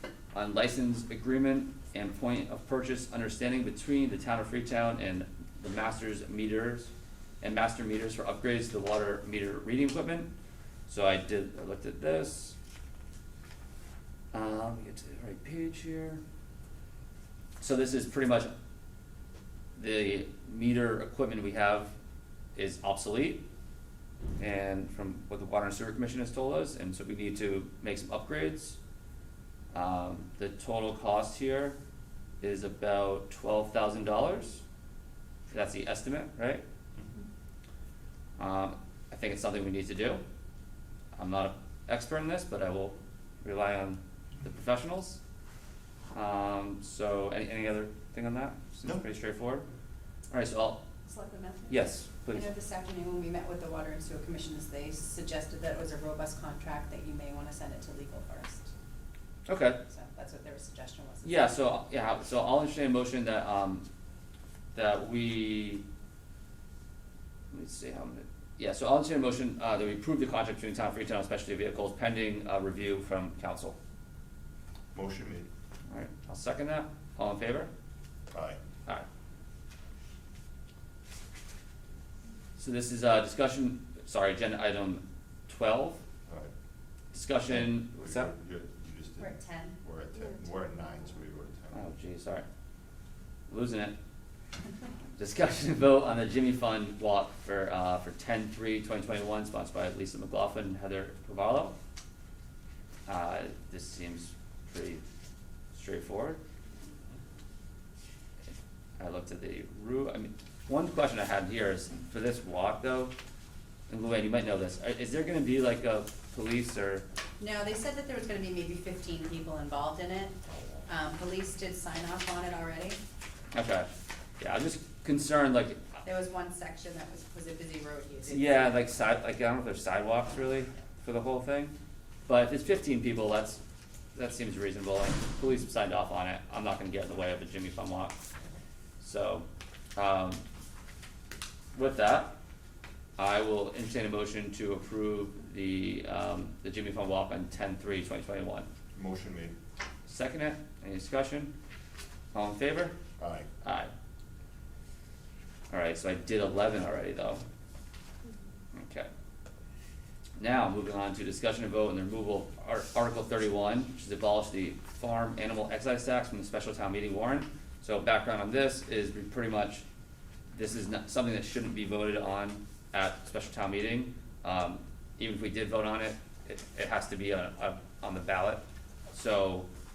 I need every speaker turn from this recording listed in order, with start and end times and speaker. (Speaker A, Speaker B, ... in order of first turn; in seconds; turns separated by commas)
Speaker A: 0.3-6.9, Speaker A: 7.4-10.3, Speaker A: 10.9-12.6, Speaker A: 14.3-16.2, Speaker A: 17.6-18.5, Speaker A: 19.8-21.9, Speaker A: 22.6-23.5, Speaker A: 24.4-28.8, Speaker A: 29.7-31.8, Speaker A: 32.4-34.6, Speaker A: 35.5-36.6, Speaker A: 38.4-40.2, Speaker A: 41.2-45.2, Speaker A: 46.1-49.7, Speaker A: 50.3-50.9, Speaker B: 51.1-58.7, Speaker A: 51.7-52.5, Speaker A: 59.5-59.8, Speaker B: 59.9-61.5, Speaker A: 61.2-63.9, Speaker A: 64.8-65.8, Speaker A: 67.5-73.8, Speaker C: 74.9-75.5, Speaker A: 75.9-77.7, Speaker C: 78.3-78.6, Speaker A: 82.6-86.0, Speaker A: 87.1-88.3, Speaker C: 87.5-91.8, Speaker B: 89.2-89.8, Speaker A: 91.7-92.5, Speaker A: 93.5-94.0, Speaker A: 95.2-101.8, Speaker A: 103.1-105.0, Speaker A: 105.7-106.4, Speaker A: 109.0-113.1, Speaker A: 113.9-117.0, Speaker B: 117.4-120.4, Speaker B: 120.9-123.0, Speaker A: 123.5-123.9, Speaker A: 124.4-126.0, Speaker B: 126.0-128.8, Speaker A: 128.3-131.7, Speaker A: 132.3-133.6, Speaker A: 134.2-138.2, Speaker A: 139.0-140.4, Speaker A: 141.7-142.4, Speaker A: 143.2-148.7, Speaker C: 148.9-149.6, Speaker A: 150.1-151.5, Speaker A: 152.3-153.0, Speaker C: 153.2-153.5, Speaker A: 153.6-153.9, Speaker A: 155.7-157.4, Speaker A: 158.7-159.1, Speaker A: 160.4-169.8, Speaker A: 170.5-179.7